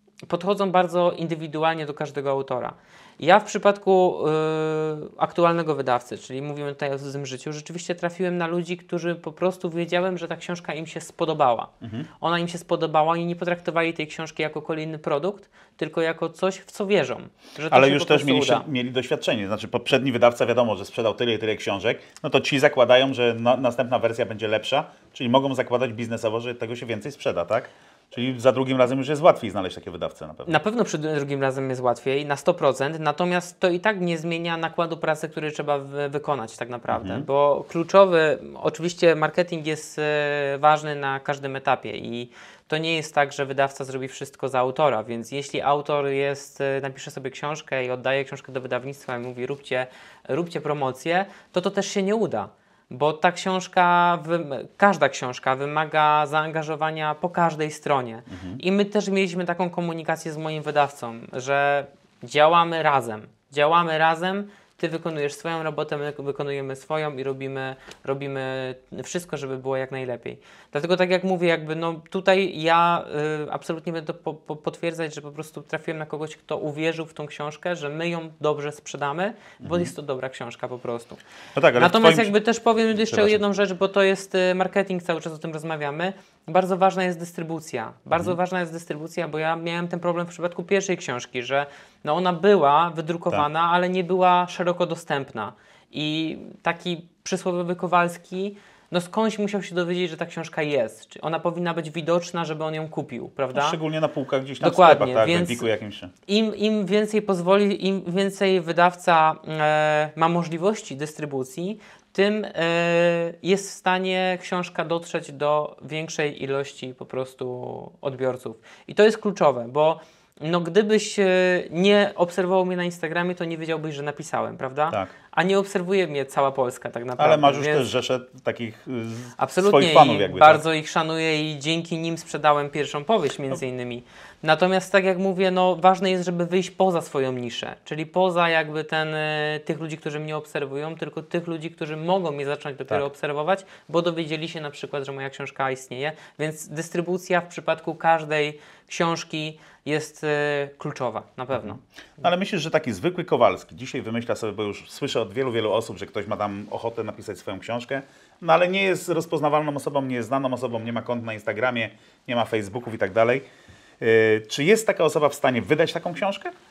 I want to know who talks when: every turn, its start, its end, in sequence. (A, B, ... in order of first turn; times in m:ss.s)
0:00.3-0:18.7 A
0:11.8-0:12.1 B
0:17.7-0:30.5 B
0:30.4-1:21.2 A
0:36.9-0:37.2 B
0:58.3-0:58.6 B
1:19.6-1:19.9 B
1:21.5-1:22.3 B
1:21.8-1:43.8 A
1:22.9-1:23.4 B
1:43.5-1:46.1 B
1:44.6-1:45.7 A
1:46.3-2:07.9 A
2:07.2-2:10.6 B
2:09.4-2:31.8 A
2:31.5-2:43.4 B
2:44.0-2:46.5 B